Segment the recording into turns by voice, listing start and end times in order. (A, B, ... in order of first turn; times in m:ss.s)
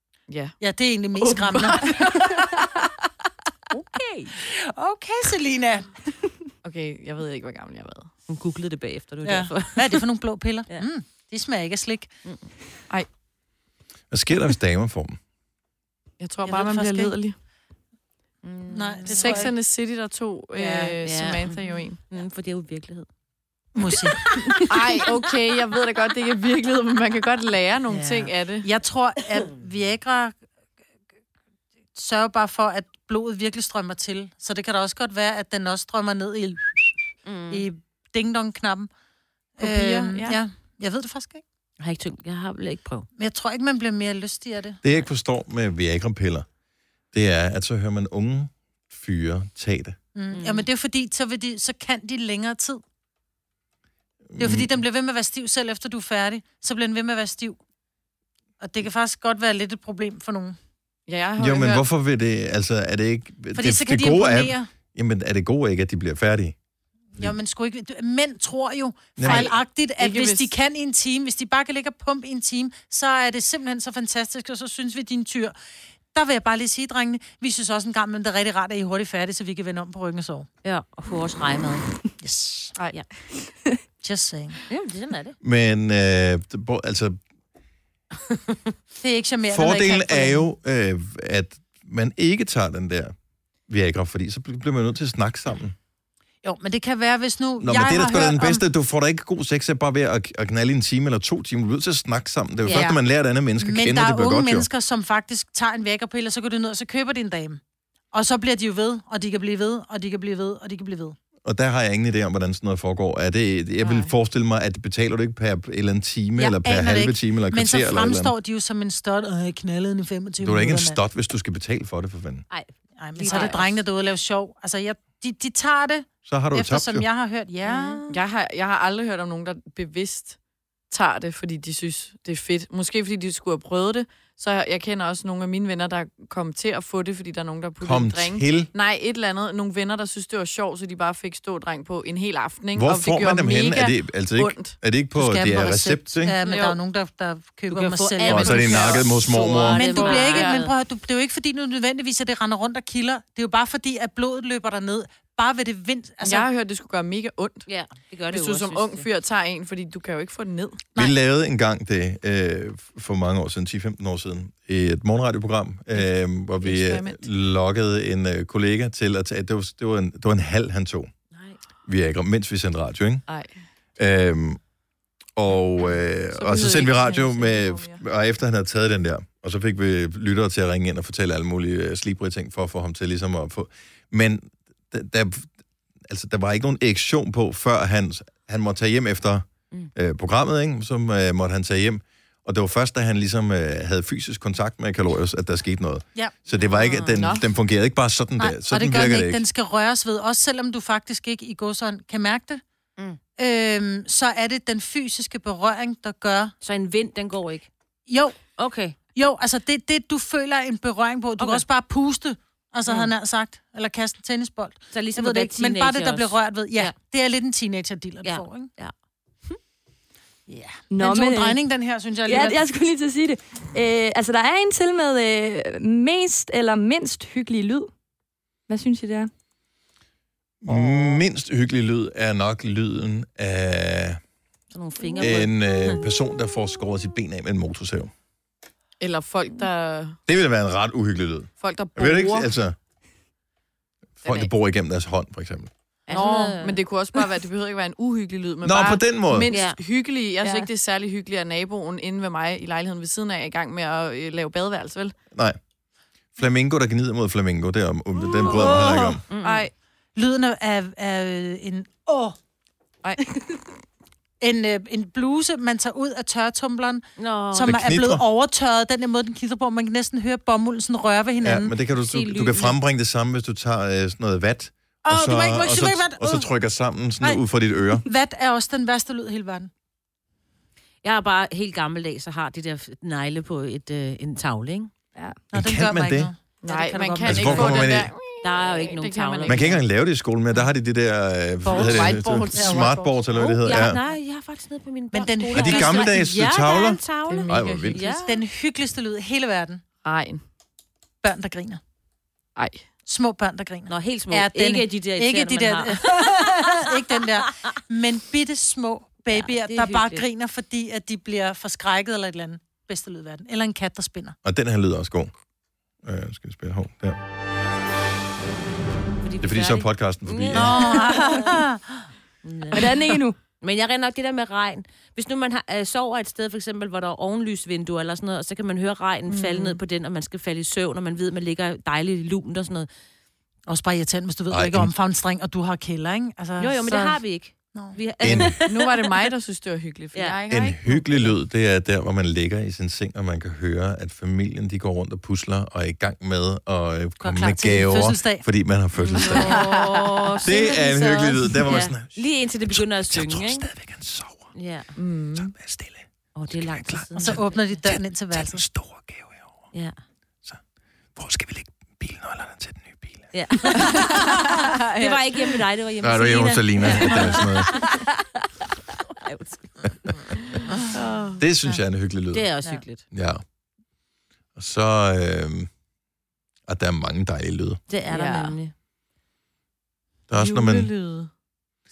0:00.3-0:00.6 A
0:00.6-0:02.4 B
0:01.2-0:02.5 A
0:03.9-0:04.3 C
0:04.4-0:06.0 B
0:06.6-0:08.2 A
0:08.3-0:10.0 C
0:09.2-0:12.1 B
0:12.2-0:12.5 C
0:14.1-0:15.2 D
0:16.2-0:17.4 A
0:16.4-0:17.2 B
0:18.4-0:19.5 C
0:18.7-0:19.6 B
0:19.1-0:22.0 A
0:20.6-0:21.0 B
0:21.0-0:23.1 C
0:23.8-0:24.6 B
0:23.9-0:25.2 C
0:24.6-0:28.7 A
0:27.9-0:28.3 C
0:28.6-0:30.4 B
0:32.0-0:38.9 B
0:37.2-0:37.6 C
0:39.6-0:41.4 B
0:39.6-0:40.4 A
0:41.8-0:43.1 C
0:43.2-0:44.8 B
0:44.8-0:46.5 D
0:47.1-0:50.0 D
0:50.2-0:52.8 B
0:50.3-0:50.7 C
0:54.3-0:54.7 D
0:54.4-0:57.6 B
0:58.6-1:00.6 B
1:01.1-1:01.8 A
1:01.4-1:06.6 D
1:03.6-1:04.7 B
1:07.2-1:15.6 B
1:09.2-1:09.5 D
1:09.2-1:10.5 A
1:16.1-1:20.5 B
1:20.6-1:21.9 C
1:22.2-1:22.8 B
1:22.8-1:23.6 A
1:24.0-1:24.6 B
1:24.7-1:25.4 C
1:25.4-1:27.2 D
1:29.0-1:30.4 B
1:29.5-1:33.1 D
1:33.7-1:35.8 D
1:36.4-1:38.6 B
1:37.6-1:44.7 D
1:42.6-1:43.0 C
1:43.6-1:51.2 B
1:51.4-1:58.3 D
1:56.4-2:01.0 B
2:00.4-2:02.4 D
2:02.5-2:03.8 C
2:03.0-2:08.2 B
2:03.2-2:03.6 A
2:06.2-2:07.1 D
2:07.7-2:08.0 C
2:08.1-2:10.4 A
2:10.9-2:24.8 A
2:17.8-2:18.7 D
2:22.8-2:26.4 D
2:25.1-2:36.5 B
2:26.4-2:26.8 A
2:27.7-2:30.7 C
2:28.2-2:29.8 D
2:29.3-2:30.7 A
2:36.2-2:37.7 A
2:37.7-2:39.1 C
2:38.3-2:40.8 A
2:41.0-2:51.1 D
2:45.9-2:47.3 A
2:51.3-2:51.6 C
2:51.9-2:53.3 D
2:53.3-2:53.7 A
2:54.0-2:54.6 D
2:55.4-3:05.5 D
2:56.3-2:58.0 A
3:06.0-3:19.5 D
3:16.5-3:17.2 C
3:17.2-3:17.5 A
3:18.4-3:22.6 B
3:23.4-3:26.5 B
3:26.6-3:27.7 C
3:28.1-3:38.7 B
3:28.6-3:29.0 C
3:31.4-3:31.6 C
3:34.9-3:37.0 C
3:38.2-3:38.9 C
3:40.5-3:42.7 B
3:40.9-3:41.6 E
3:42.2-3:47.9 E
3:48.7-3:49.3 E
3:50.6-3:54.2 D
3:54.7-3:56.0 C
3:55.2-3:58.1 D
3:59.0-4:00.2 A
4:00.3-4:02.8 D
4:01.6-4:02.6 A
4:04.2-4:05.7 D
4:04.2-4:04.5 A
4:06.1-4:06.8 C
4:06.1-4:15.2 A
4:08.6-4:09.5 D
4:09.5-4:09.8 C
4:10.4-4:10.7 E
4:15.3-4:15.6 D
4:16.3-4:19.2 D
4:18.2-4:19.7 A
4:19.3-4:19.7 C
4:20.2-4:22.4 B
4:24.4-4:31.7 B
4:27.2-4:27.8 C
4:27.6-4:28.2 D
4:31.4-4:38.0 D
4:32.0-4:32.8 C
4:35.0-4:36.5 B
4:37.2-4:39.7 B
4:41.0-4:44.9 C
4:45.5-4:47.9 B
4:45.5-4:46.3 D
4:46.6-4:49.8 A
4:47.2-4:48.1 D
4:48.4-4:49.8 C
4:49.5-4:54.0 D
4:51.6-4:53.0 B
4:51.7-4:53.2 A
4:53.3-4:58.4 C
4:55.1-4:56.2 B
4:55.5-4:58.0 D
4:57.3-4:58.1 A
4:58.0-4:59.8 B
5:00.0-5:00.4 A
5:01.2-5:01.8 B
5:02.6-5:02.9 A
5:03.1-5:14.4 B
5:03.9-5:06.4 C
5:09.3-5:10.3 C
5:14.4-5:15.3 D
5:16.0-5:17.2 D
5:19.2-5:21.6 C
5:19.4-5:21.0 D
5:20.5-5:22.1 B
5:22.4-5:22.8 C
5:22.7-5:23.4 E
5:23.6-5:32.9 C
5:29.3-5:29.8 A
5:33.7-5:38.0 B
5:34.5-5:34.9 D
5:36.6-5:39.3 C
5:38.2-5:38.6 D
5:38.7-5:41.4 A
5:40.5-5:49.6 D
5:47.2-5:48.5 B
5:49.0-5:50.5 A
5:49.1-5:53.7 C
5:49.2-5:49.8 B
5:50.4-5:54.5 D
5:54.5-5:54.9 C
5:55.0-5:55.6 A
5:55.3-5:59.5 D
5:56.4-5:57.8 C
5:57.2-5:58.6 B
5:59.7-6:00.0 C
6:01.2-6:03.8 D
6:03.3-6:08.0 C
6:03.8-6:05.5 A
6:06.0-6:07.8 D
6:06.9-6:07.4 A
6:09.2-6:10.2 C
6:10.8-6:11.4 C
6:11.4-6:13.4 D
6:12.3-6:13.0 C
6:14.6-6:15.7 D
6:16.7-6:17.8 D
6:17.9-6:18.7 C
6:18.1-6:18.6 A
6:20.3-6:20.9 D
6:20.4-6:21.3 C